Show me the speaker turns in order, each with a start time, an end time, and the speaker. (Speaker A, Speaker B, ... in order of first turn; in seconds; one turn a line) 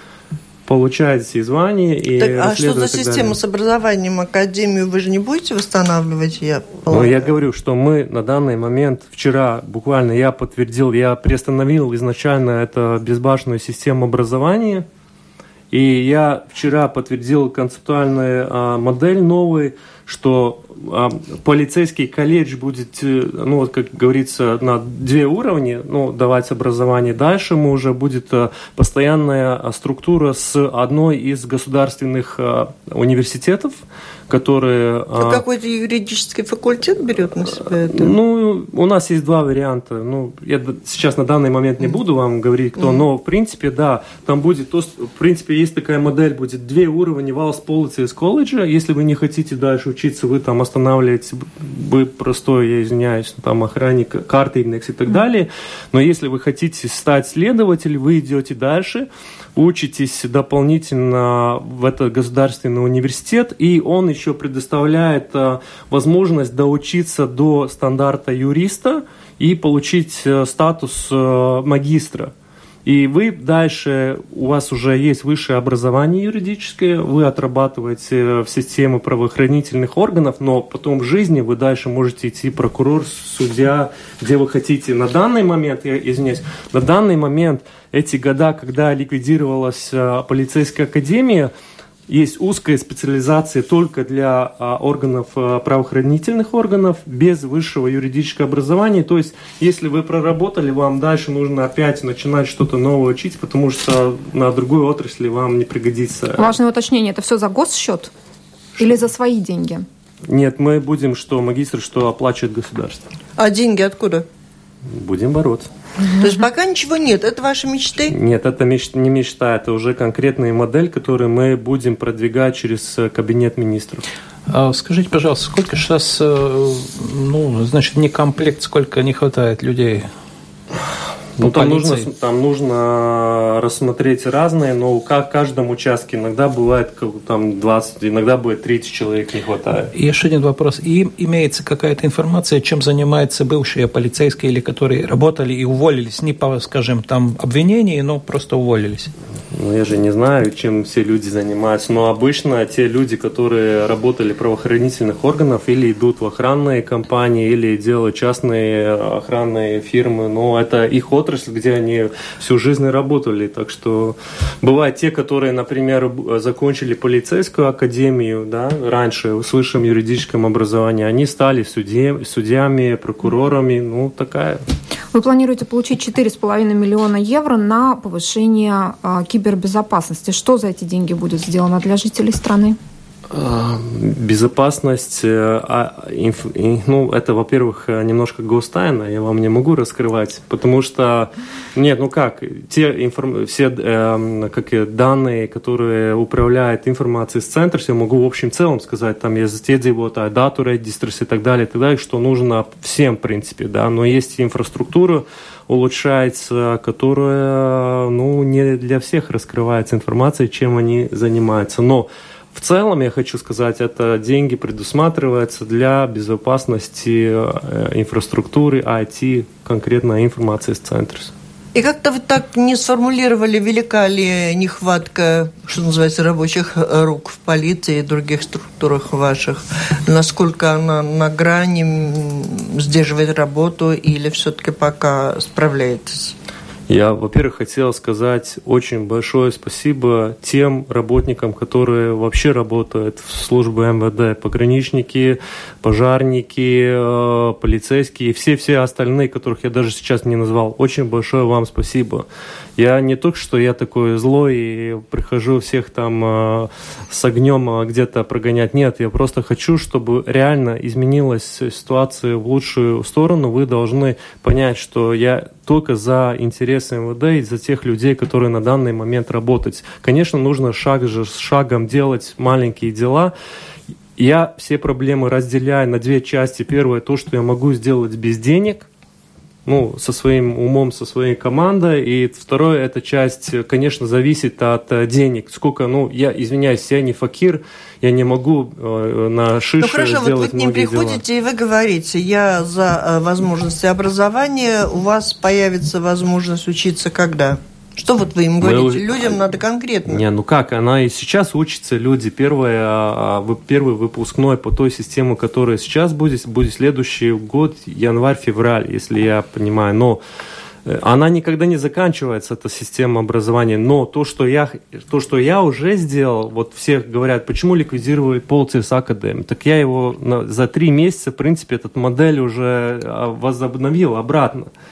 Speaker A: 0.7-3.4
Speaker B: 2.2-7.3
Speaker A: 6.9-14.8
Speaker A: 15.7-35.4
Speaker B: 35.2-38.1
Speaker A: 37.8-72.3
Speaker A: 72.8-91.5
Speaker A: 92.1-106.5
Speaker C: 106.4-108.1
Speaker C: 108.8-109.8
Speaker A: 110.2-113.0
Speaker B: 113.4-114.2
Speaker A: 114.9-115.7
Speaker B: 116.2-118.1
Speaker A: 118.1-124.0
Speaker D: 124.5-130.1
Speaker A: 131.4-139.9
Speaker D: 131.4-132.1
Speaker D: 139.9-149.1
Speaker A: 149.5-174.6
Speaker C: 175.1-182.8
Speaker A: 183.3-221.3
Speaker B: 221.7-236.3
Speaker A: 236.9-252.2
Speaker A: 252.8-273.3
Speaker A: 274.2-278.9
Speaker A: 279.6-291.2
Speaker B: 289.8-300.2
Speaker A: 298.6-299.4
Speaker A: 300.1-310.2
Speaker A: 310.9-324.7